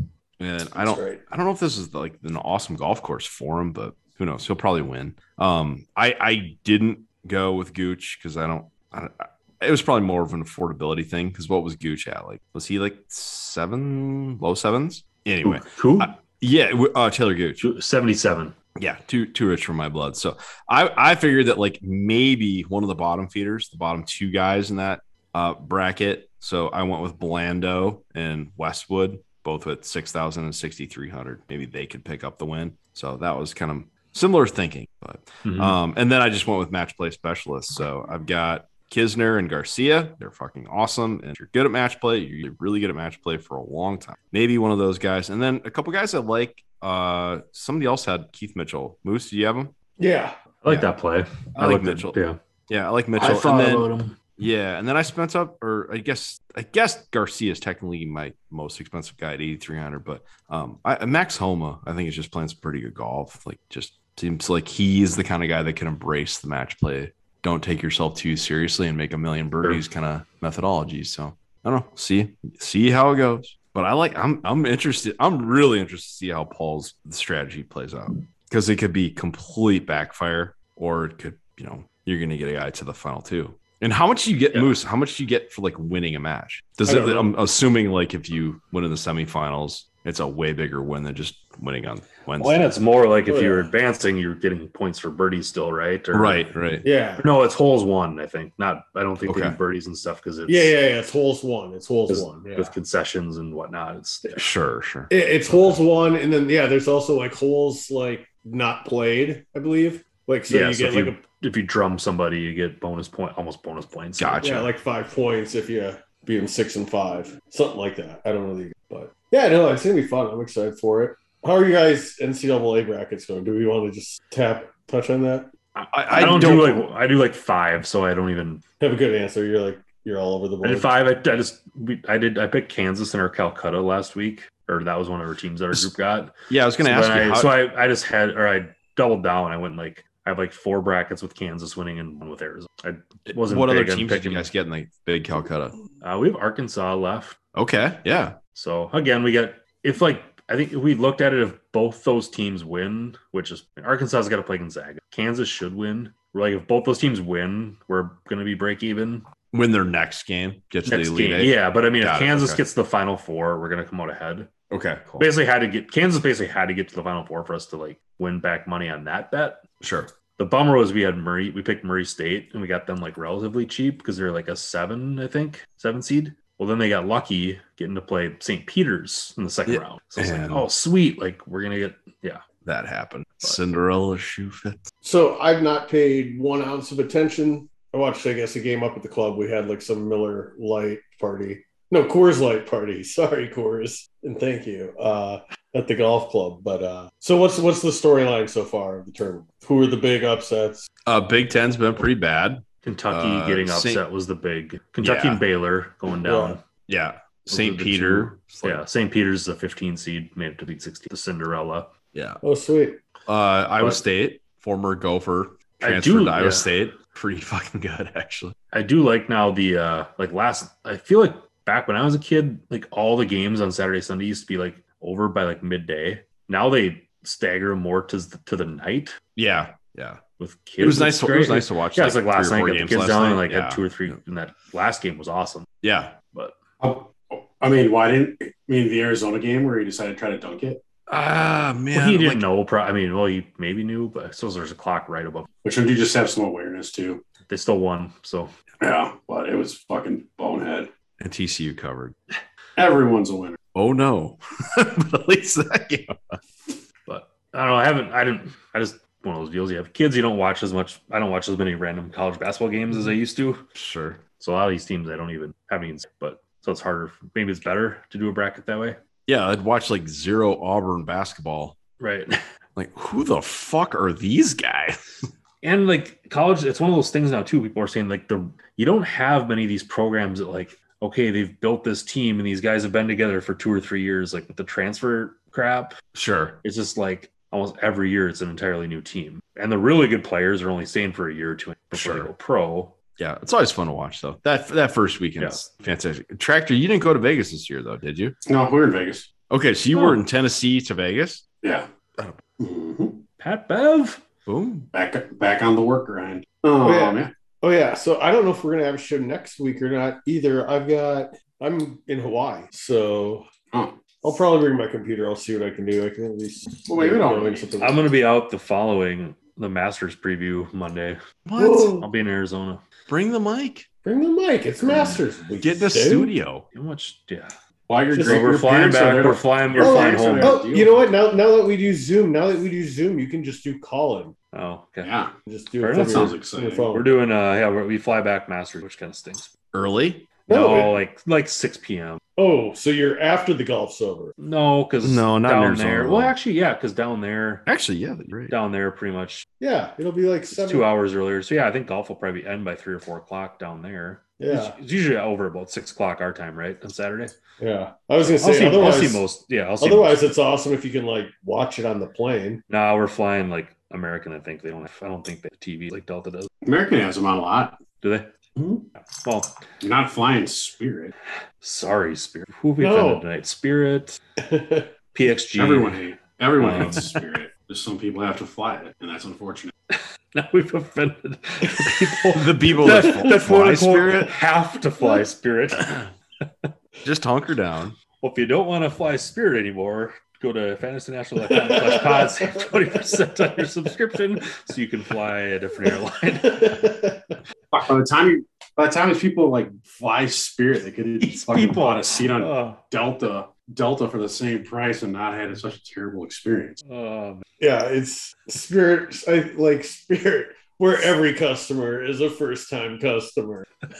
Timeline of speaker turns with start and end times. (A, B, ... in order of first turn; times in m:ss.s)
0:00.4-0:17.6 A
0:00.8-0:01.2 B
0:15.4-0:16.1 C
0:17.6-0:18.5 C
0:18.8-0:49.7 A
0:35.4-0:35.7 C
0:50.0-0:50.3 B
0:50.6-0:52.4 C
0:51.5-1:32.7 A
0:53.2-0:54.1 C
1:26.8-1:27.3 B
1:32.4-1:36.5 C
1:33.3-1:33.7 B
1:36.1-1:36.8 A
1:36.8-1:37.2 B
1:37.2-1:40.7 C
1:39.2-1:39.6 A
1:40.5-1:42.7 B
1:42.1-1:44.5 C
1:44.4-1:45.1 A
1:45.1-1:51.2 B
1:50.5-1:54.5 C
1:54.2-1:54.7 A
1:54.4-2:05.5 B
2:05.9-2:06.8 A
2:06.1-2:08.6 C
2:08.8-2:10.9 B
2:10.6-2:24.5 C
2:16.5-2:17.6 A
2:23.3-2:25.8 A
2:26.0-2:27.4 C
2:27.5-2:28.4 A
2:28.5-2:39.2 C
2:39.5-2:42.6 A
2:40.8-2:44.5 C
2:44.7-2:45.3 A
2:45.2-2:49.6 C
2:49.8-2:50.1 A
2:50.4-3:02.4 C
2:59.7-3:00.6 A
3:02.6-3:04.9 A
3:05.0-3:20.9 B
3:21.0-3:24.0 A
3:22.8-3:26.6 C
3:25.0-3:25.4 A
3:26.2-3:26.6 B
3:26.9-3:28.8 A
3:27.5-3:31.9 C
3:32.1-3:32.4 A
3:32.4-3:33.0 B
3:33.3-3:38.5 A
3:35.8-3:36.7 C
3:38.7-3:49.2 C
3:49.4-3:50.2 A
3:50.4-3:55.7 C
3:50.8-3:54.2 A
3:55.8-3:56.1 A
3:56.3-3:56.6 C
3:56.8-4:00.8 D
4:01.1-4:02.4 A
4:01.9-4:05.5 C
4:05.6-4:07.2 D
4:07.5-4:08.5 C
4:08.8-4:10.9 D
4:11.2-4:12.2 A
4:12.8-4:13.6 D
4:13.7-4:16.4 A
4:17.1-4:23.6 C
4:23.7-4:24.2 A
4:24.4-4:29.0 C
4:29.3-4:31.8 A
4:32.0-4:32.4 C
4:32.8-4:35.3 A
4:35.6-4:46.0 C
4:46.1-4:46.6 A
4:46.6-4:52.9 C
4:51.9-4:52.3 A
4:53.2-4:58.4 A
4:58.4-4:59.3 D
4:59.5-5:01.4 A
5:01.6-5:01.9 D
5:02.6-5:03.2 D
5:03.4-5:04.2 C
5:04.4-5:04.9 A
5:04.9-5:07.3 D
5:06.8-5:13.5 B
5:13.7-5:14.0 D
5:14.2-5:18.1 B
5:16.9-5:17.9 D
5:17.8-5:21.2 C
5:21.4-5:22.0 A
5:21.6-5:22.1 B
5:22.0-5:22.8 C
5:23.1-5:23.9 A
5:24.0-5:26.3 B
5:25.6-5:26.6 A
5:26.7-5:27.5 C
5:27.9-5:31.0 D
5:28.1-5:28.4 B
5:28.2-5:30.6 C
5:29.8-5:34.3 B
5:34.5-5:35.1 C
5:35.0-5:35.3 D
5:35.4-5:37.1 B
5:35.8-5:36.3 C
5:36.0-5:36.9 D
5:36.9-5:39.5 C
5:39.7-5:40.3 A
5:40.5-5:42.2 C
5:40.5-5:41.0 B
5:42.4-5:44.3 B
5:44.4-5:47.6 C
5:45.0-5:46.3 A
5:47.6-5:48.5 A
5:48.5-5:49.4 C
5:49.6-5:50.9 B
5:50.5-5:57.3 C
5:54.4-5:54.8 B
5:57.6-5:59.2 B
5:58.4-6:00.3 C
5:59.8-6:02.6 B
6:02.7-6:06.5 C
6:06.6-6:07.8 D
6:08.0-6:08.3 C
6:08.6-6:08.9 D
6:09.0-6:09.5 C
6:09.8-6:11.1 D
6:11.6-6:14.2 C
6:12.8-6:13.2 B
6:14.4-6:14.9 B
6:15.1-6:16.0 C
6:15.6-6:19.7 D
6:16.6-6:17.1 A
6:16.6-6:17.0 C
6:19.9-6:26.7 C
6:22.3-6:24.3 A
6:27.0-6:28.0 A
6:28.2-6:36.8 C
6:31.5-6:33.0 B
6:36.4-6:37.4 B
6:37.7-6:46.8 D
6:41.2-6:42.8 C
6:46.9-6:47.4 C
6:47.6-6:53.6 B